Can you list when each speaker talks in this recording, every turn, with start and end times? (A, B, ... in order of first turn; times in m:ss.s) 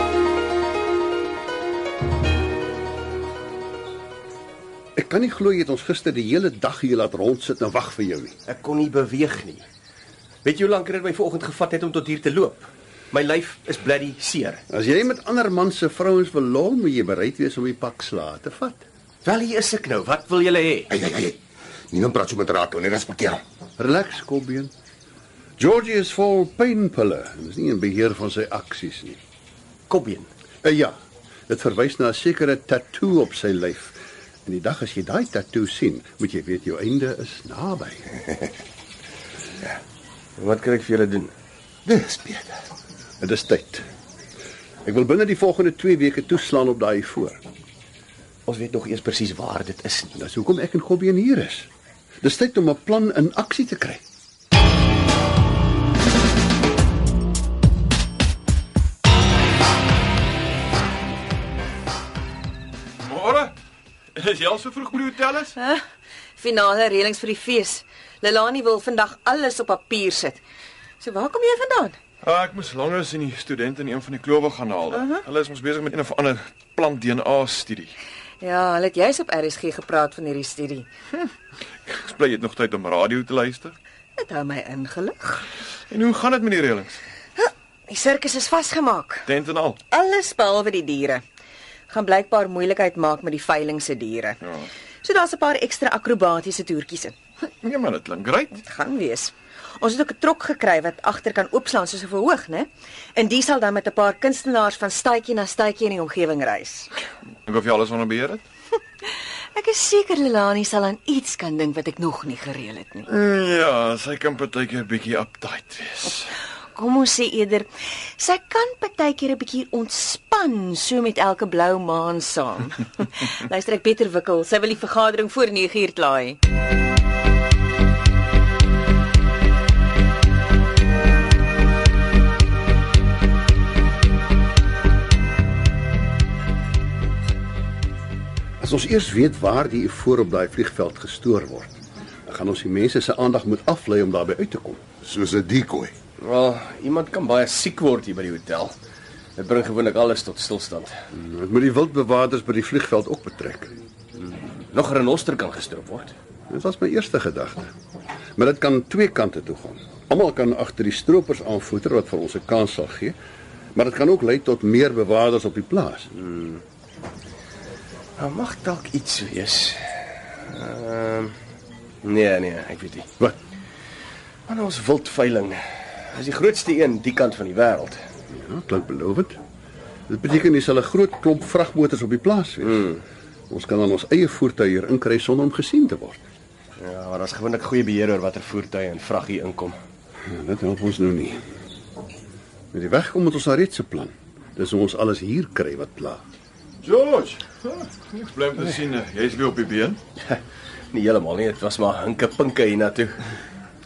0:05.0-0:08.3 A
0:08.5-0:09.6 B
0:10.4-0:14.6 B
0:14.7-0:18.8 A
0:19.2-0:20.9 B
0:20.9-0:21.4 C
0:21.9-0:23.4 C
0:23.8-0:24.7 A
0:25.6-0:29.2 A
0:29.9-0:30.3 B
0:30.6-0:31.0 A
0:31.5-0:38.0 A
0:40.4-0:41.3 B
0:41.8-0:42.1 C
0:42.1-0:42.6 B
0:43.2-0:43.8 A
0:44.8-0:47.4 A
0:48.5-0:50.1 B
0:50.2-0:51.7 A
0:52.2-0:54.0 A
1:03.0-1:03.5 D
1:04.1-1:05.6 D
1:06.4-1:10.4 E
1:11.0-1:12.0 E
1:12.2-1:18.0 D
1:14.9-1:15.2 E
1:18.4-1:20.9 E
1:21.9-1:23.8 D
1:24.2-1:25.5 E
1:25.9-1:27.0 D
1:27.4-1:29.3 E
1:29.2-1:29.8 D
1:29.9-1:31.2 E
1:31.9-1:34.4 E
1:35.0-1:37.1 E
1:37.6-1:38.5 D
1:38.6-1:46.9 E
1:47.5-1:48.4 D
1:49.6-1:53.1 E
1:53.1-1:56.3 D
1:56.8-2:06.4 E
2:18.6-2:24.8 A
2:25.0-2:25.9 C
2:26.2-2:28.7 B
2:29.4-2:30.9 B
2:31.1-2:33.7 A
2:34.2-2:36.2 B
2:36.5-2:37.7 A
2:38.4-2:43.2 A
2:43.8-2:46.3 A
2:48.2-2:51.3 B
2:52.0-2:53.1 B
2:54.5-2:58.0 B
2:58.3-2:59.4 A
3:00.1-3:03.0 A
3:03.5-3:06.2 A
3:06.8-3:09.8 B
3:10.3-3:11.4 A
3:12.7-3:16.2 A
3:16.8-3:20.0 D
3:20.9-3:23.2 B